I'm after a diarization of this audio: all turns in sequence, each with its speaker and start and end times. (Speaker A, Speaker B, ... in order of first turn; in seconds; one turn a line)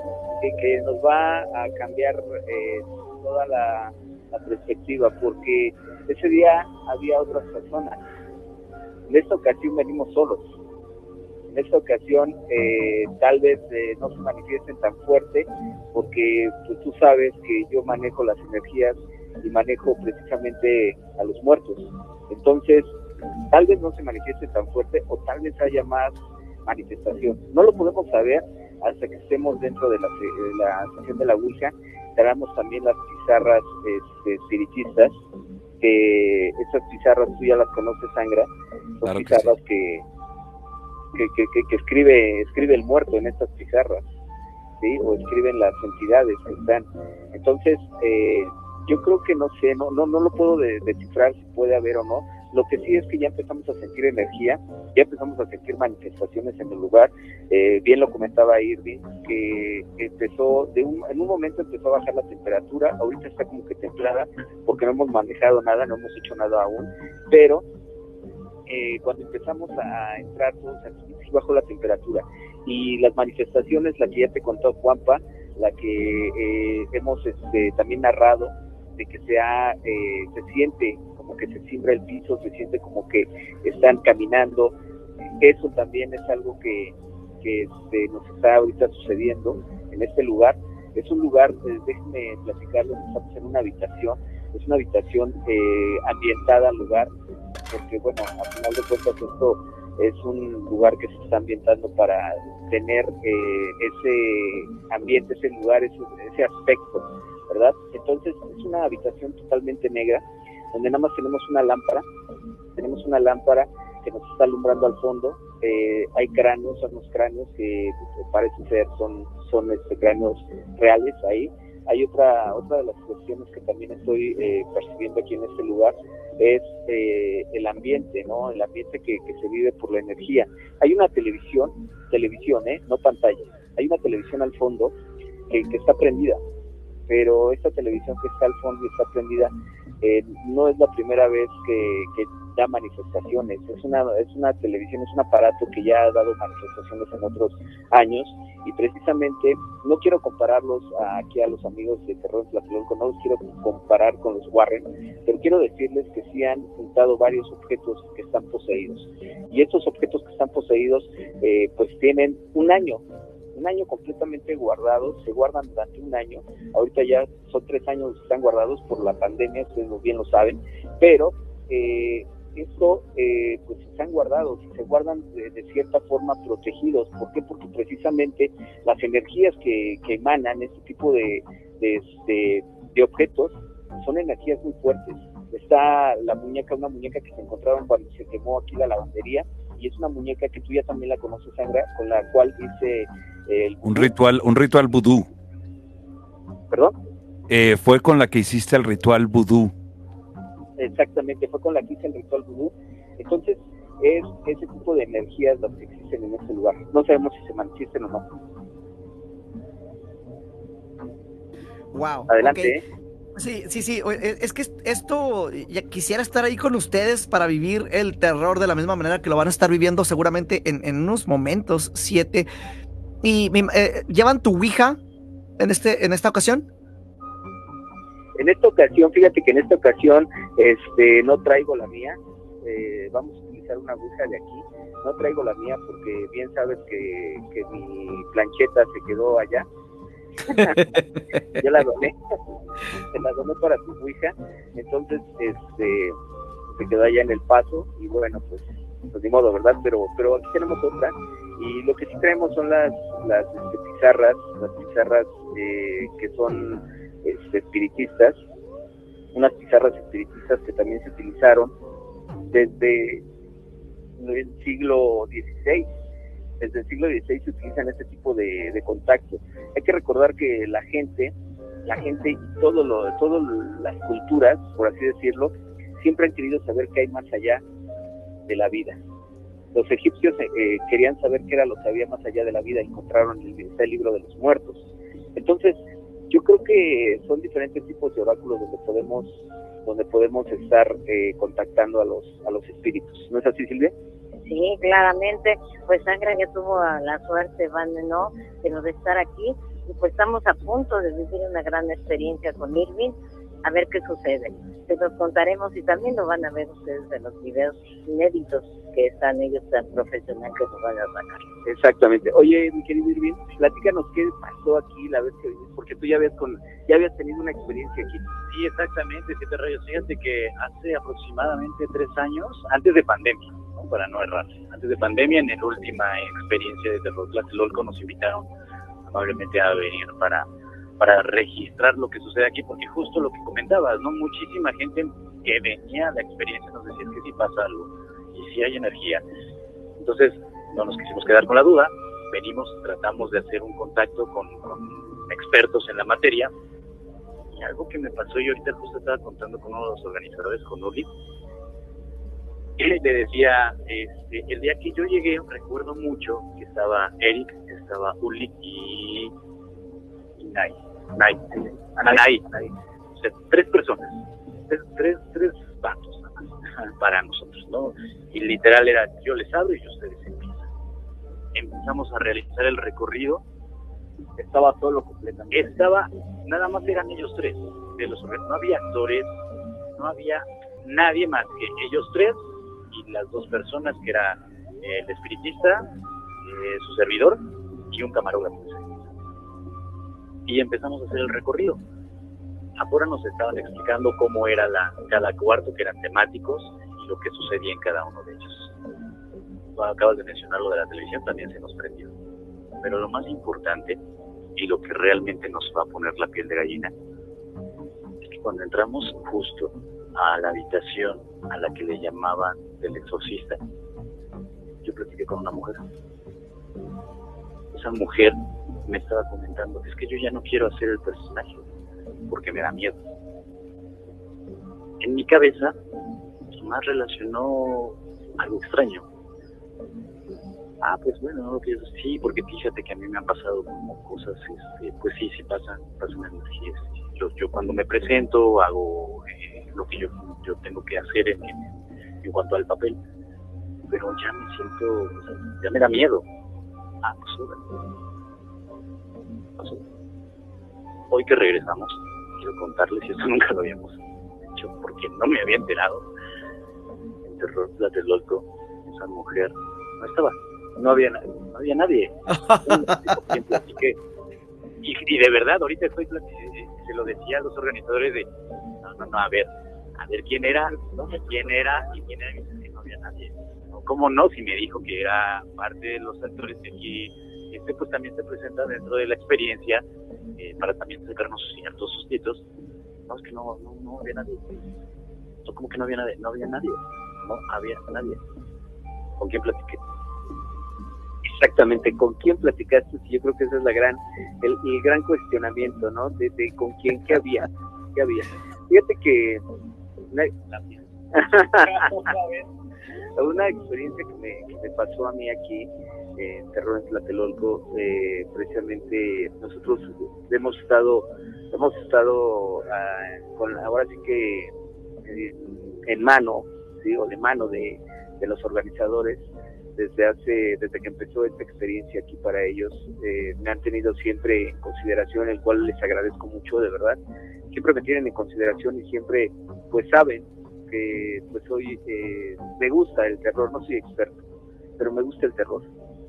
Speaker A: 0.4-8.0
Speaker A: 9.1-10.4
Speaker A: 11.5-22.9
Speaker A: 23.5-35.1
Speaker A: 35.8-38.5
Speaker A: 39.0-40.0
Speaker B: 39.0-39.5
Speaker A: 41.1-44.0
Speaker A: 44.8-67.6
Speaker A: 68.7-84.7
Speaker A: 85.4-97.1
Speaker A: 97.7-112.0
Speaker A: 112.8-134.9
Speaker A: 135.5-136.4
Speaker A: 137.1-163.0
Speaker A: 163.6-194.1
Speaker B: 193.8-195.3
Speaker B: 197.5-199.7
Speaker A: 200.8-208.2
Speaker C: 211.9-212.8
Speaker A: 212.3-212.8
Speaker C: 213.4-222.5
Speaker C: 223.2-225.0
Speaker C: 225.6-226.7
Speaker A: 228.4-239.7
Speaker A: 240.5-241.0
Speaker A: 241.6-242.2
Speaker A: 243.1-246.2
Speaker A: 246.8-258.4
Speaker A: 259.3-261.7
Speaker A: 262.5-263.2
Speaker A: 264.2-265.9
Speaker A: 266.6-271.3
Speaker A: 271.9-277.6
Speaker A: 278.5-279.0
Speaker A: 279.7-284.8
Speaker A: 285.4-285.8
Speaker A: 286.3-293.9
Speaker D: 294.4-311.5
Speaker A: 311.7-318.2
Speaker E: 318.5-328.5
Speaker E: 329.1-330.5
Speaker E: 331.0-339.2
Speaker E: 340.0-346.5
Speaker E: 347.6-351.1
Speaker E: 352.8-359.3
Speaker E: 360.4-362.5
Speaker E: 363.2-364.1
Speaker E: 364.7-370.7
Speaker E: 371.6-373.4
Speaker A: 374.4-375.8
Speaker E: 375.5-379.3
Speaker E: 379.9-382.4
Speaker E: 382.9-385.9
Speaker E: 386.4-389.0
Speaker E: 390.5-391.8
Speaker E: 392.8-398.7
Speaker E: 399.8-402.1
Speaker E: 402.8-404.0
Speaker E: 404.6-406.9
Speaker E: 408.3-413.6
Speaker E: 414.8-415.8
Speaker E: 417.7-421.6
Speaker E: 422.3-423.0
Speaker E: 425.0-425.8
Speaker E: 426.6-429.1
Speaker E: 430.8-441.6
Speaker E: 442.2-443.0
Speaker E: 443.9-446.2
Speaker E: 447.0-447.6
Speaker E: 451.1-456.1
Speaker E: 457.2-464.0
Speaker E: 464.8-468.3
Speaker E: 468.8-479.8
Speaker A: 470.7-471.6
Speaker E: 480.4-482.4
Speaker E: 483.1-484.6
Speaker E: 485.4-488.2
Speaker E: 489.2-489.8
Speaker A: 491.2-499.4
Speaker A: 501.1-502.1
Speaker E: 501.6-502.4
Speaker A: 503.2-514.5
Speaker A: 515.1-519.2
Speaker A: 519.8-527.0
Speaker A: 527.5-534.2
Speaker A: 534.8-535.7